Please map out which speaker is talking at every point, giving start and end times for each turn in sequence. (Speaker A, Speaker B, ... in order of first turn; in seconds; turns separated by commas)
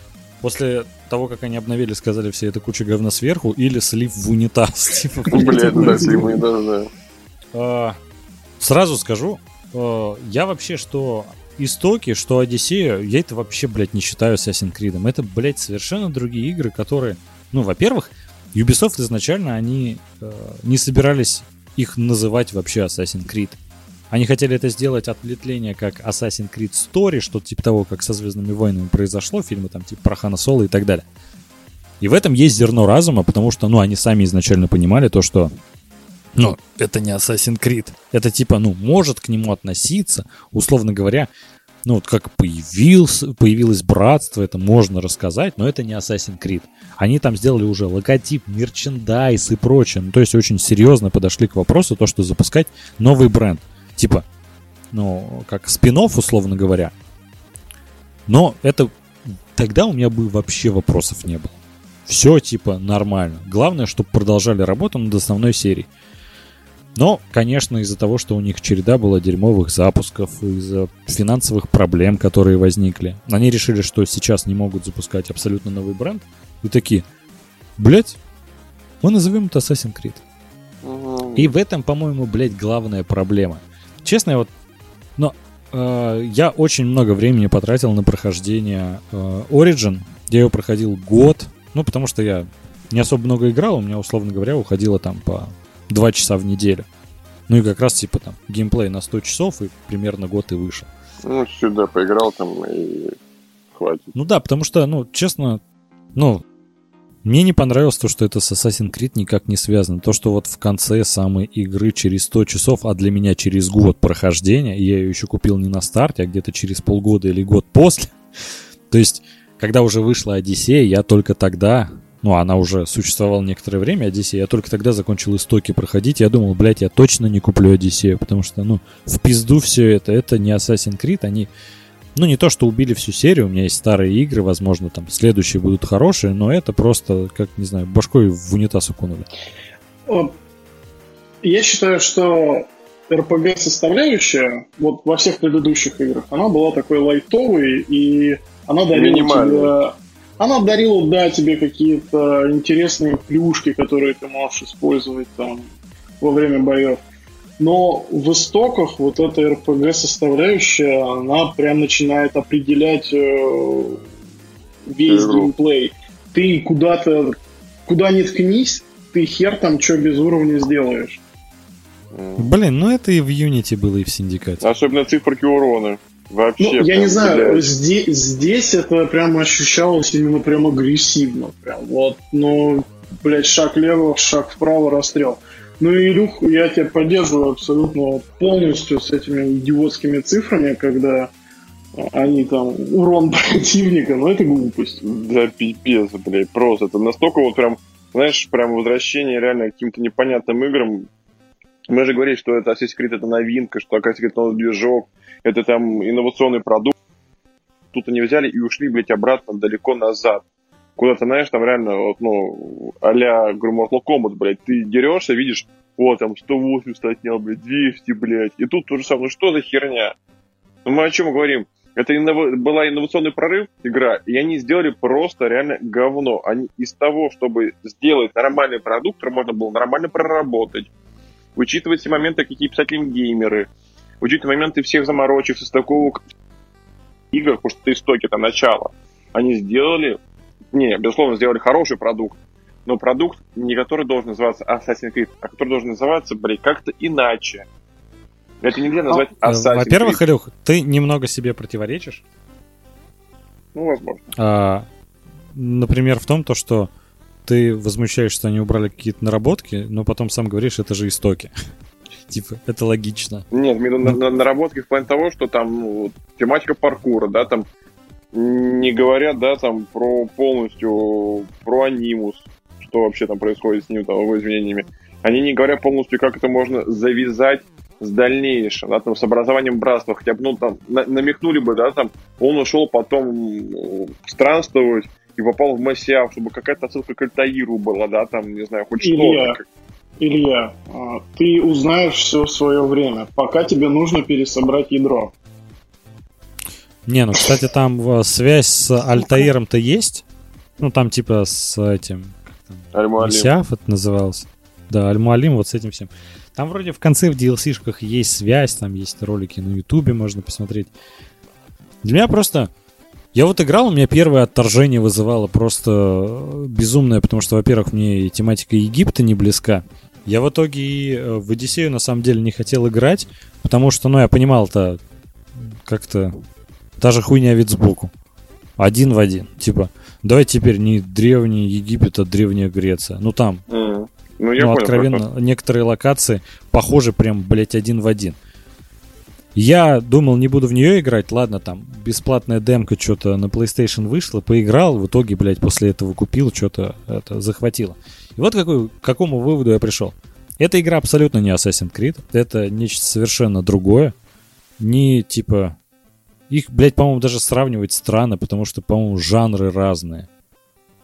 Speaker A: 0.4-6.4, Speaker B: 5.3-6.2, Speaker C: 5.3-6.9, Speaker A: 7.5-8.0, Speaker A: 8.6-23.6, Speaker A: 24.1-31.1, Speaker A: 32.0-35.5, Speaker A: 36.4-41.3, Speaker A: 41.9-54.2, Speaker A: 54.9-56.9, Speaker A: 58.3-58.9, Speaker A: 59.5-65.9, Speaker A: 67.0-77.0, Speaker A: 77.8-78.2, Speaker A: 79.0-80.2, Speaker C: 80.8-81.5, Speaker A: 81.4-84.5, Speaker A: 85.2-96.9, Speaker A: 97.5-100.9, Speaker C: 101.2-103.2, Speaker C: 103.7-104.1, Speaker A: 104.2-105.6, Speaker A: 106.2-106.4, Speaker A: 107.2-118.2, Speaker A: 118.9-131.5, Speaker A: 132.2-139.3, Speaker B: 140.1-140.3, Speaker B: 141.4-155.7, Speaker C: 148.9-149.7, Speaker B: 156.2-157.0, Speaker B: 157.6-164.0, Speaker B: 164.9-171.2, Speaker C: 165.1-165.5, Speaker C: 172.1-172.5, Speaker A: 172.4-174.6, Speaker C: 174.6-177.7, Speaker B: 176.6-191.3, Speaker B: 191.9-195.0, Speaker C: 195.0-201.1, Speaker C: 201.9-206.9, Speaker C: 207.9-210.4, Speaker C: 211.0-220.2, Speaker C: 220.8-230.9, Speaker C: 231.6-233.7, Speaker C: 234.2-236.2, Speaker C: 237.3-240.2, Speaker C: 240.7-247.7, Speaker C: 248.6-250.2, Speaker A: 249.4-252.2, Speaker C: 253.7-254.3, Speaker A: 254.4-254.9, Speaker A: 255.6-256.9, Speaker A: 257.5-261.5, Speaker A: 262.3-263.4, Speaker C: 263.5-267.7, Speaker C: 268.3-289.6, Speaker B: 289.0-289.6, Speaker B: 290.2-295.3, Speaker A: 297.1-300.2, Speaker A: 300.8-310.9, Speaker C: 302.9-303.5, Speaker A: 312.0-312.7, Speaker A: 313.3-325.0, Speaker A: 325.9-326.4, Speaker A: 327.0-328.1, Speaker A: 328.8-333.6, Speaker C: 333.7-335.2, Speaker A: 334.6-338.4, Speaker A: 339.6-354.1, Speaker A: 354.8-355.8, Speaker A: 356.5-360.3